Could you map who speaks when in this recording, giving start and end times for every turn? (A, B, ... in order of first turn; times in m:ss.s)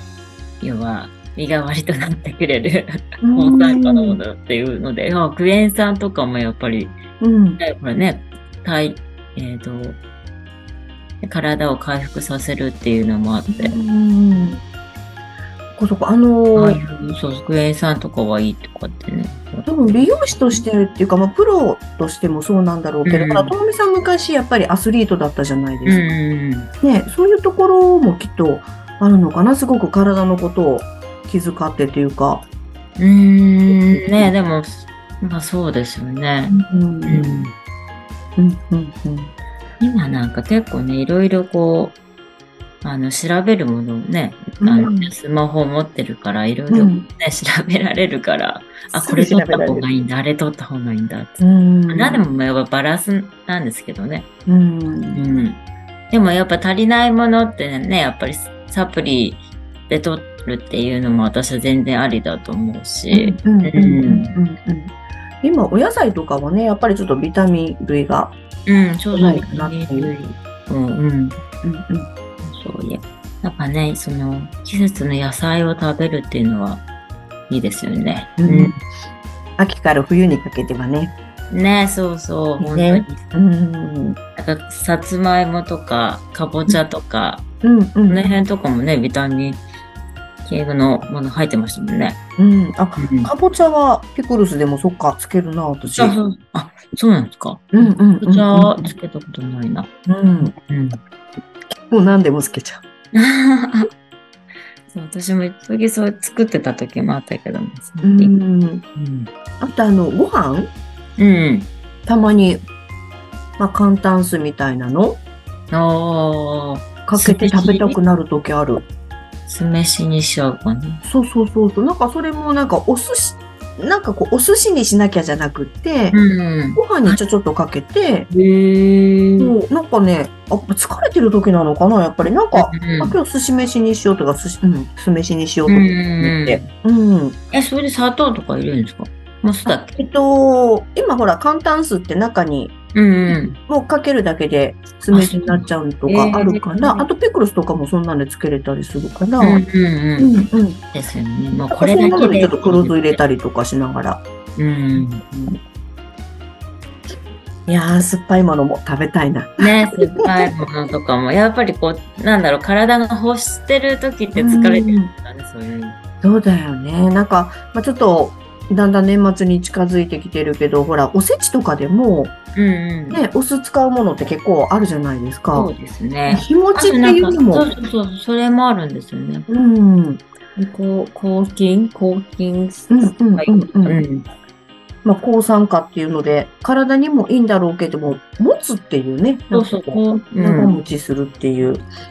0:00.6-0:07.0 A
0:03.2-0:04.2 B
0:07.2-0:07.6 B
0:07.6-0:10.0 A
0:11.2-0:13.8 A
0:13.5-0:14.6 B
0:15.8-0:16.8 B
0:16.6-0:20.6 A
0:19.7-0:26.1 B
0:23.0-0:23.6 A
0:25.9-0:26.7 A
0:26.8-0:32.4 B
0:33.0-0:36.5 A
0:33.9-0:34.3 B
0:36.5-0:37.2 B
0:37.1-0:37.5 A
0:38.4-0:39.3 B
0:39.8-0:42.0 A
0:42.8-0:54.3 A
0:44.6-0:45.1 B
0:46.7-0:47.1 B
0:48.9-0:49.9 B
0:51.4-0:52.2 B
0:54.5-0:55.2 B
0:55.1-0:55.6 A
0:56.1-1:04.4 A
1:03.1-1:08.4 B
1:08.7-1:11.4 A
1:09.1-1:10.1 B
1:11.6-1:12.1 B
1:12.4-1:16.8 A
1:17.5-1:18.7 A
1:18.4-1:18.8 B
1:19.6-1:21.1 B
1:21.5-1:23.2 A
1:22.6-1:24.2 B
1:24.4-1:27.4 A
1:27.6-1:28.2 B
1:28.1-1:29.6 A
1:30.4-1:32.2 A
1:32.4-1:36.2 B
1:33.0-1:33.3 A
1:36.0-1:41.0 A
1:37.8-1:38.9 B
1:40.1-1:40.5 B
1:41.9-1:42.8 B
1:43.1-1:43.9 A
1:44.9-1:48.3 A
1:48.0-1:48.8 B
1:49.0-1:49.3 A
1:49.6-1:50.7 B
1:51.2-1:51.7 A
1:52.1-1:52.6 B
1:53.6-1:55.2 B
1:55.7-1:58.0 A
1:57.1-1:58.9 B
1:59.5-2:01.0 A
2:01.0-2:06.2 B
2:06.1-2:07.2 A
2:06.8-2:08.3 B
2:08.3-2:09.6 A
2:09.4-2:17.4 B
2:12.5-2:13.2 A
2:15.7-2:16.7 A
2:17.5-2:20.0 A
2:19.6-2:22.7 B
2:23.0-2:23.6 A
2:23.3-2:29.6 B
2:25.1-2:27.1 A
2:29.4-2:33.2 A
2:30.2-2:30.8 B
2:31.7-2:34.2 B
2:34.6-2:35.6 A
2:37.7-2:39.9 B
2:39.6-2:46.0 A
2:44.3-2:45.1 B
2:46.2-2:52.4 B
2:52.6-2:53.2 A
2:53.1-2:55.7 B
2:55.5-2:59.5 A
2:56.3-2:57.6 B
2:59.5-3:00.2 B
3:00.6-3:04.3 A
3:02.9-3:04.0 B
3:05.0-3:11.8 B
3:09.5-3:10.8 A